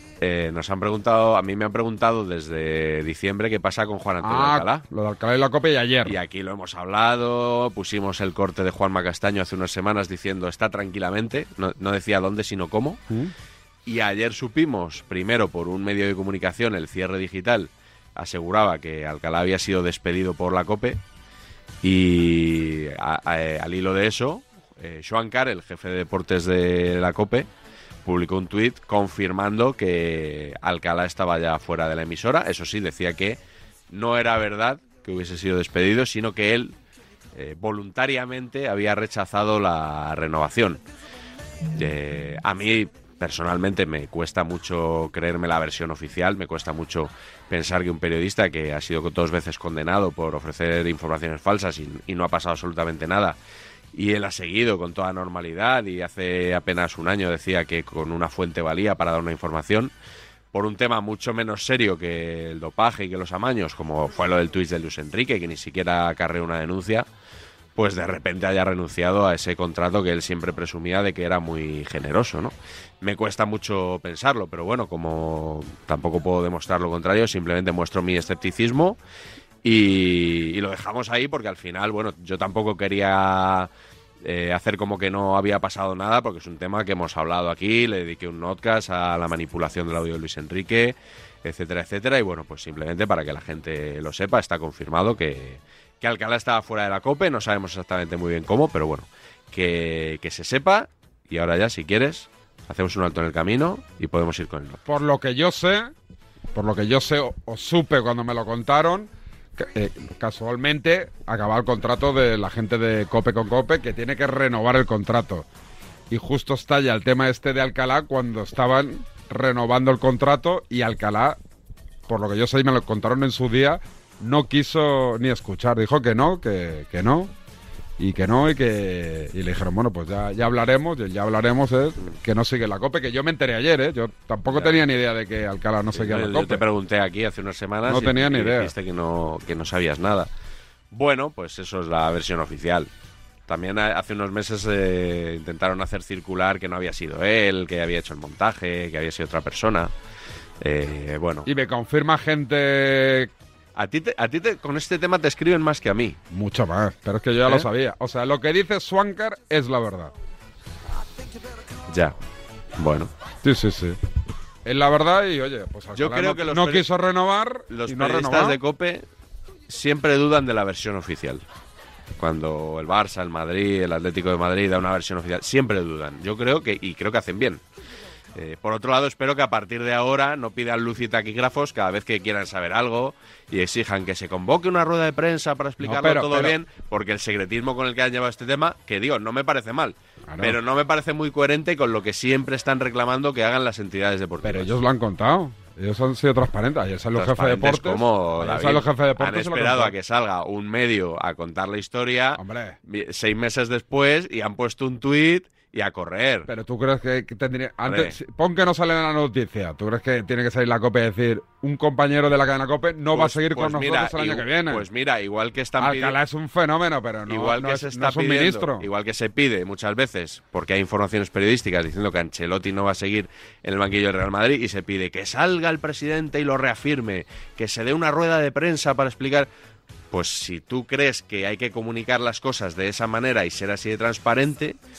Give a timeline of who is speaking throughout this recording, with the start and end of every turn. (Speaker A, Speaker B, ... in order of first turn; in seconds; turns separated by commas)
Speaker A: 0.2-4.8, Speaker B: 4.2-6.2, Speaker A: 6.0-13.0, Speaker A: 13.8-21.0, Speaker A: 21.8-27.5, Speaker A: 28.0-36.8, Speaker A: 37.3-40.8, Speaker A: 41.7-53.4, Speaker A: 53.9-59.9, Speaker A: 60.5-67.1, Speaker A: 67.8-79.0, Speaker A: 79.6-83.7, Speaker A: 84.2-104.8, Speaker B: 104.8-105.9, Speaker B: 106.5-115.5, Speaker B: 116.1-121.4, Speaker B: 122.1-127.3, Speaker B: 128.0-136.6, Speaker A: 134.5-134.8, Speaker A: 135.9-140.3, Speaker B: 137.8-138.7, Speaker A: 140.9-142.9, Speaker A: 143.5-149.9, Speaker A: 150.6-151.5, Speaker B: 151.4-153.3, Speaker A: 153.7-156.2, Speaker B: 156.3-160.1, Speaker A: 161.9-162.1, Speaker A: 162.8-163.1, Speaker B: 163.4-164.0, Speaker B: 164.7-168.6, Speaker A: 165.9-166.9, Speaker A: 167.7-169.1, Speaker A: 169.7-171.4, Speaker A: 172.2-177.6, Speaker A: 178.3-194.7, Speaker B: 185.8-186.6, Speaker B: 190.3-190.6, Speaker B: 194.4-199.9, Speaker A: 197.1-206.5, Speaker B: 202.4-202.8, Speaker B: 206.5-214.8, Speaker A: 207.8-208.2, Speaker A: 213.1-216.2, Speaker B: 215.8-218.8, Speaker A: 217.3-229.5, Speaker A: 230.1-234.8